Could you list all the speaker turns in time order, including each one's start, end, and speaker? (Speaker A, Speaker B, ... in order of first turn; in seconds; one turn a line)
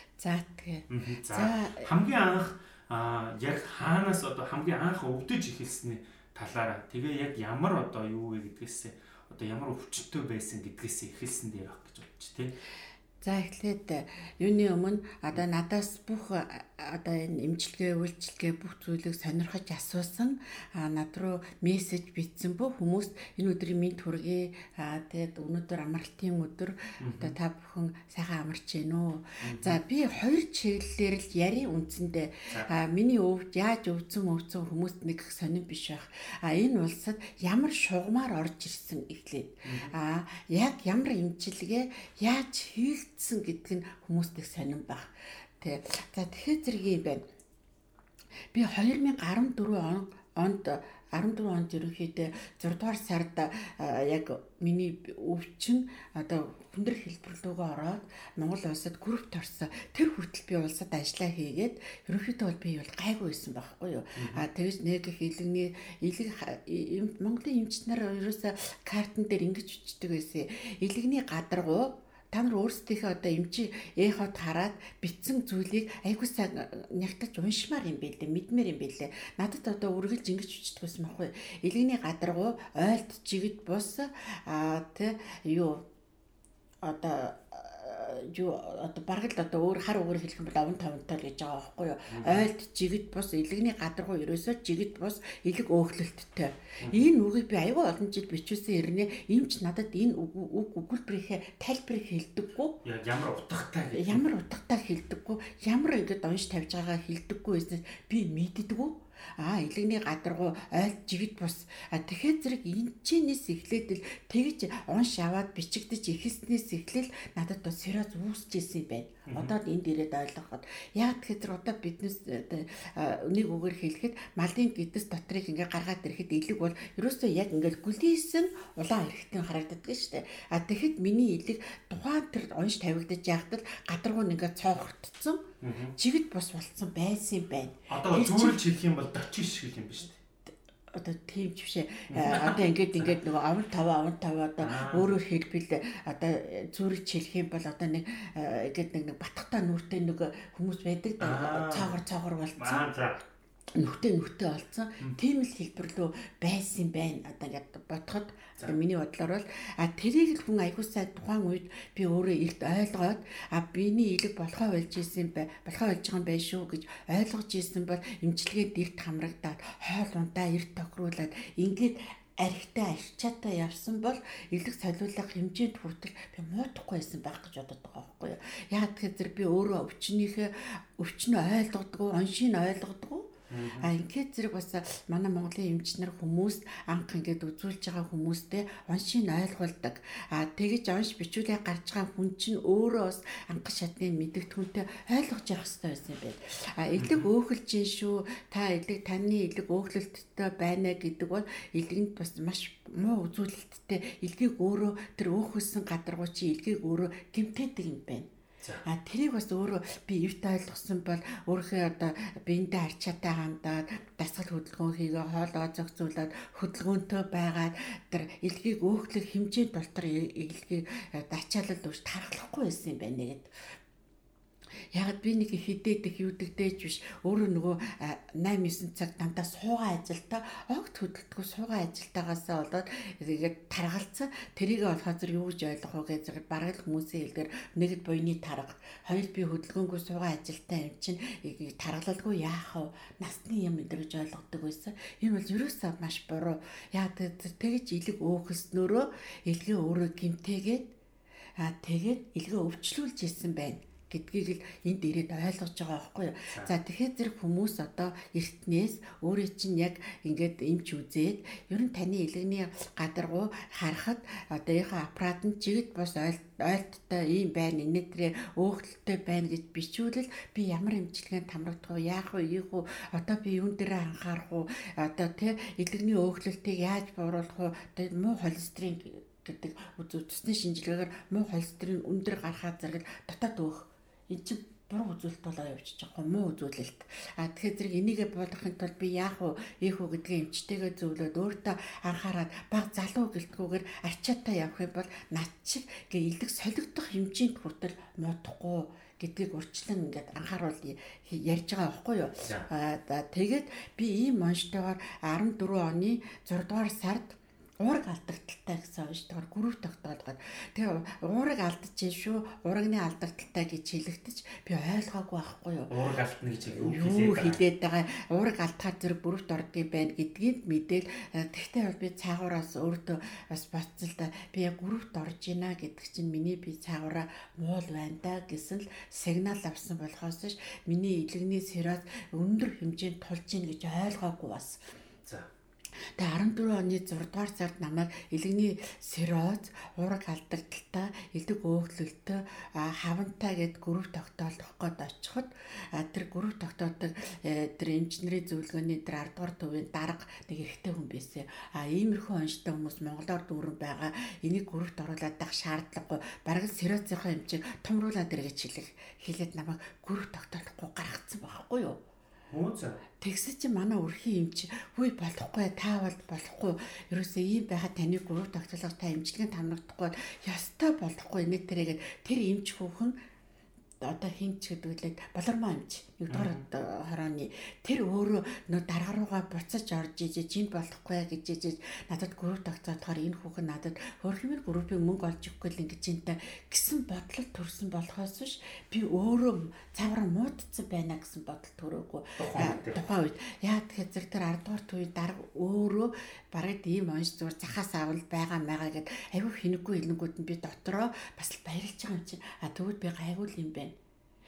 Speaker A: 0.2-1.9
Speaker B: 0.9-12.6
Speaker A: 13.2-47.2
Speaker B: 27.0-27.4
Speaker B: 29.4-29.8
Speaker B: 39.6-39.9
Speaker A: 48.5-85.8
Speaker B: 64.2-64.4
Speaker A: 86.8-102.8
Speaker B: 92.1-92.5
Speaker B: 96.8-97.1
Speaker B: 102.8-104.2
Speaker A: 103.9-135.4
Speaker B: 119.3-119.5
Speaker B: 135.6-135.9
Speaker A: 135.9-138.6
Speaker B: 137.9-140.2
Speaker A: 140.9-152.9
Speaker B: 142.1-143.1
Speaker B: 144.6-145.2
Speaker B: 151.2-152.0
Speaker B: 152.6-153.2
Speaker A: 153.7-208.3
Speaker B: 183.5-183.9
Speaker B: 197.0-197.3
Speaker A: 208.8-223.5
Speaker A: 224.9-250.9
Speaker A: 251.6-315.9
Speaker B: 315.9-317.6
Speaker A: 316.6-334.8
Speaker A: 336.2-362.0
Speaker B: 362.5-363.0
Speaker A: 363.2-373.1
Speaker A: 374.0-403.9
Speaker B: 376.3-376.6
Speaker B: 392.4-393.0